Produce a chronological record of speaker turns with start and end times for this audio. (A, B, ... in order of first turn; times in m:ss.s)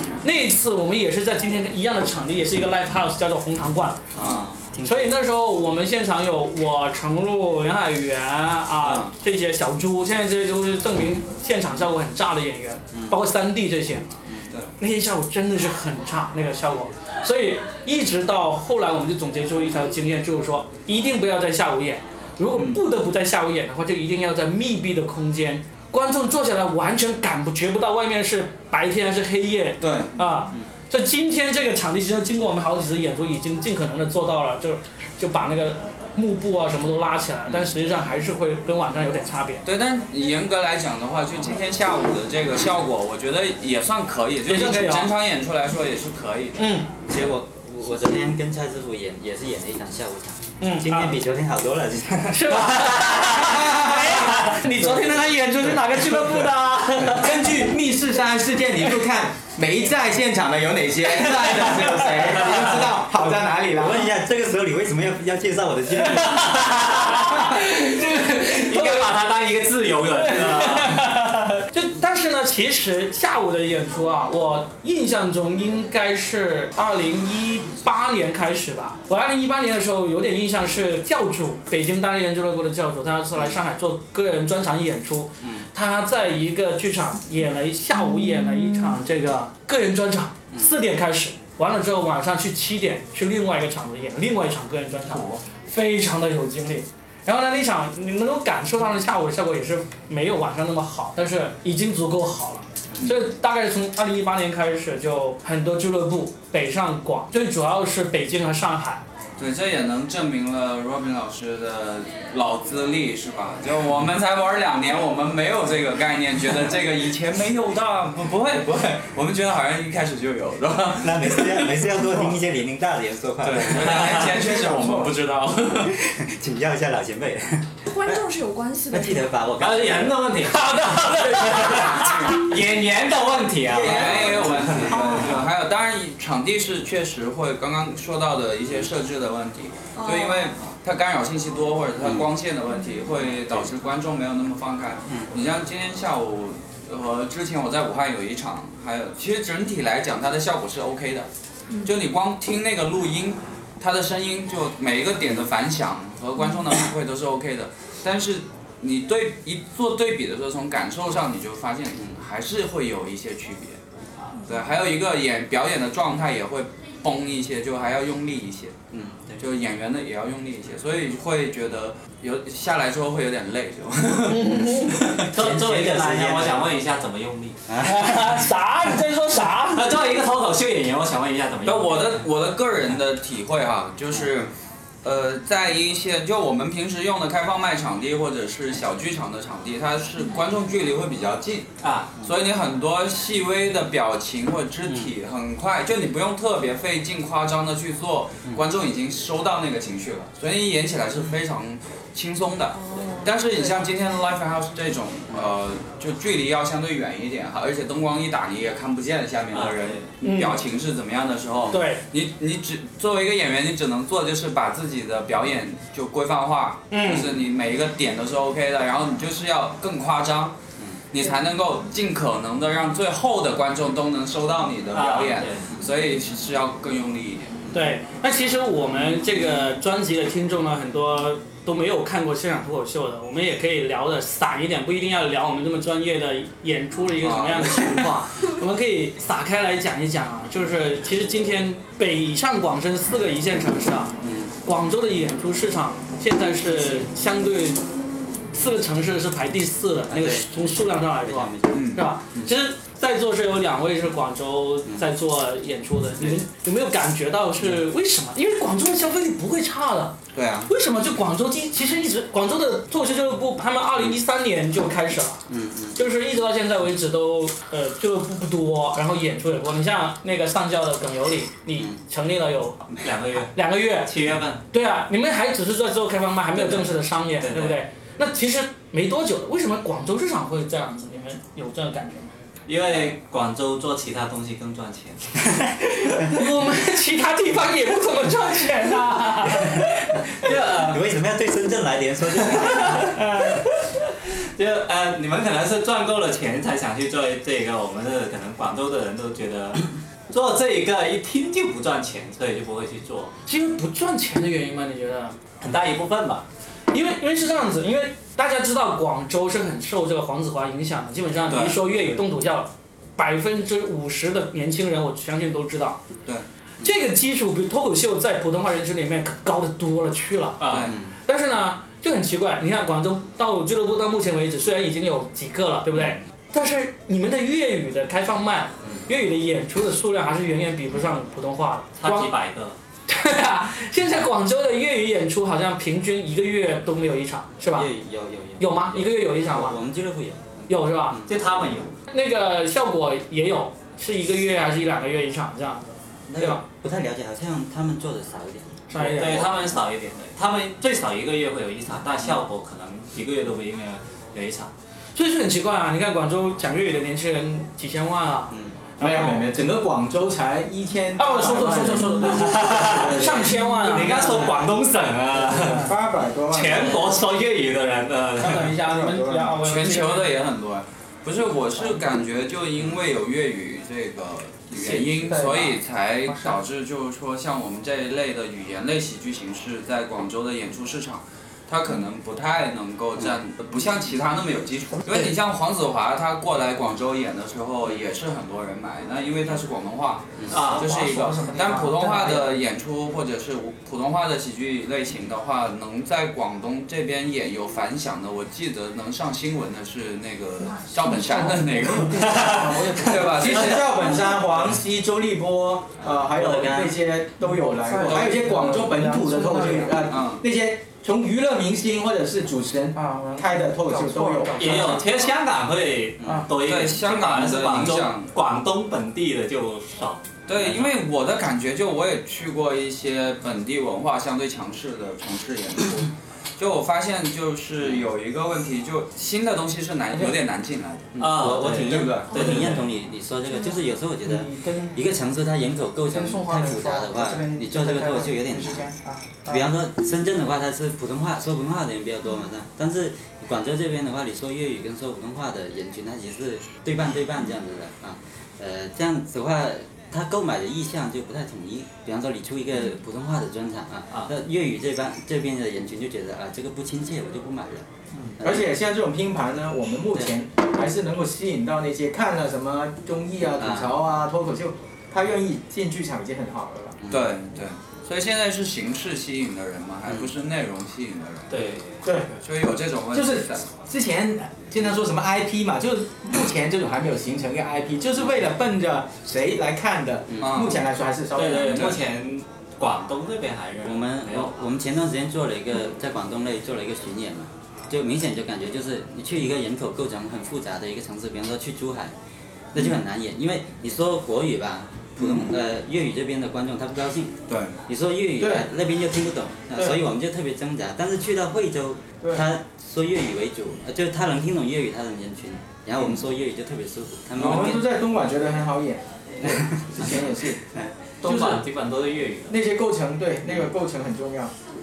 0:00.2-0:04.1 A
0:04.2-0:04.5 B
0:04.2-0:05.1 C
0:04.8-0:14.1 A
0:08.8-0:09.1 B
0:14.8-0:39.6 A
0:29.8-0:30.1 B
0:39.6-0:46.6 B
0:44.5-0:45.1 A
0:46.6-0:46.9 A
0:47.1-0:53.1 C
0:50.6-0:51.2 A
0:52.3-0:57.6 A
0:53.3-0:54.5 D
0:54.7-0:55.2 C
0:57.1-1:04.1 D
1:03.7-1:06.7 C
1:06.6-1:07.2 E
1:07.0-1:09.1 A
1:08.1-1:11.0 E
1:10.2-1:49.0 A
1:35.1-1:35.4 B
1:49.4-2:02.3 B
2:01.0-2:04.7 C
2:03.4-2:05.9 B
2:05.7-2:07.7 C
2:07.9-2:09.3 F
2:08.9-2:10.4 C
2:09.6-2:15.4 E
2:10.5-2:12.4 A
2:12.0-2:12.4 B
2:13.7-2:31.3 B
2:13.8-2:15.3 F
2:20.0-2:20.5 F
2:31.8-2:43.8 B
2:44.4-2:48.8 B
2:48.9-2:49.4 C
2:49.4-2:55.3 B
2:54.3-2:55.0 A
2:55.3-2:57.6 E
2:55.3-2:56.6 C
2:57.7-2:58.2 C
2:57.8-2:59.9 A
2:59.7-3:02.2 E
3:01.6-3:04.5 B
3:05.0-3:11.7 B
3:11.8-3:12.1 E
3:12.2-3:40.6 B
3:22.7-3:23.9 F
3:29.5-3:30.0 E
3:30.2-3:30.6 A
3:31.7-3:32.0 A
3:36.9-3:37.3 A
3:41.1-3:47.7 B
3:44.9-3:45.7 E
3:47.7-4:07.8 A
3:57.2-3:58.1 B
4:04.2-4:04.5 C
4:08.5-4:32.8 A
4:10.1-4:10.5 C
4:11.2-4:11.8 C
4:11.7-4:12.5 B
4:20.3-4:20.7 B
4:25.5-4:26.0 C
4:33.0-4:33.5 E
4:33.5-4:34.1 A
4:34.0-4:34.6 E
4:34.7-4:42.3 A
4:36.6-4:37.8 E
4:42.7-4:45.6 E
4:46.0-4:50.2 A
4:49.5-4:53.2 C
4:50.4-4:51.0 E
4:52.4-4:53.6 E
4:54.5-5:03.3 E
5:03.5-5:05.4 A
5:05.6-5:06.4 E
5:06.9-5:16.0 A
5:11.5-5:11.9 B
5:16.8-5:20.6 A
5:20.6-5:20.9 E
5:20.7-5:21.0 B
5:20.8-5:21.1 C
5:21.2-5:32.3 A
5:32.0-5:32.8 E
5:33.1-5:37.9 A
5:37.7-5:41.3 C
5:38.6-5:39.8 A
5:40.7-5:41.2 A
5:41.3-5:41.9 E
5:42.1-5:46.6 A
5:46.3-5:49.8 C
5:48.9-5:49.5 A
5:49.0-5:54.7 E
5:55.1-5:59.5 A
5:59.0-6:03.5 D
6:01.2-6:04.7 A
6:02.1-6:05.9 E
6:04.1-6:04.5 D
6:05.4-6:07.2 D
6:06.5-6:08.8 E
6:08.4-6:10.3 A
6:08.5-6:09.6 D
6:09.6-6:44.0 B
6:30.5-6:31.2 E
6:31.5-6:32.4 A
6:41.9-6:54.9 D
6:42.1-6:43.4 E
6:46.3-6:47.0 C
6:48.0-6:48.8 B
6:48.0-6:49.9 A
6:50.0-6:50.4 B
6:53.0-6:53.4 A
6:54.2-6:55.0 A
6:54.6-7:00.9 E
6:56.2-6:56.5 C
6:56.6-6:58.3 B
7:00.5-7:12.4 B
7:11.2-7:12.9 E
7:11.3-7:37.9 C
7:16.3-7:16.9 A
7:38.4-7:47.0 D
7:43.6-7:43.9 C
7:47.1-7:51.6 B
7:51.5-7:52.0 E
7:52.0-7:52.4 D
7:52.4-7:53.6 B
7:53.1-8:02.0 D
8:00.3-8:00.7 C
8:00.4-8:00.9 B
8:01.3-8:04.6 E
8:03.8-8:12.1 C
8:12.7-8:27.9 C
8:15.2-8:15.6 B
8:17.5-8:17.7 B
8:18.4-8:18.7 D
8:27.3-8:30.6 D
8:29.4-8:30.2 C
8:31.2-8:32.6 E
8:31.2-8:31.6 D
8:32.5-8:34.5 D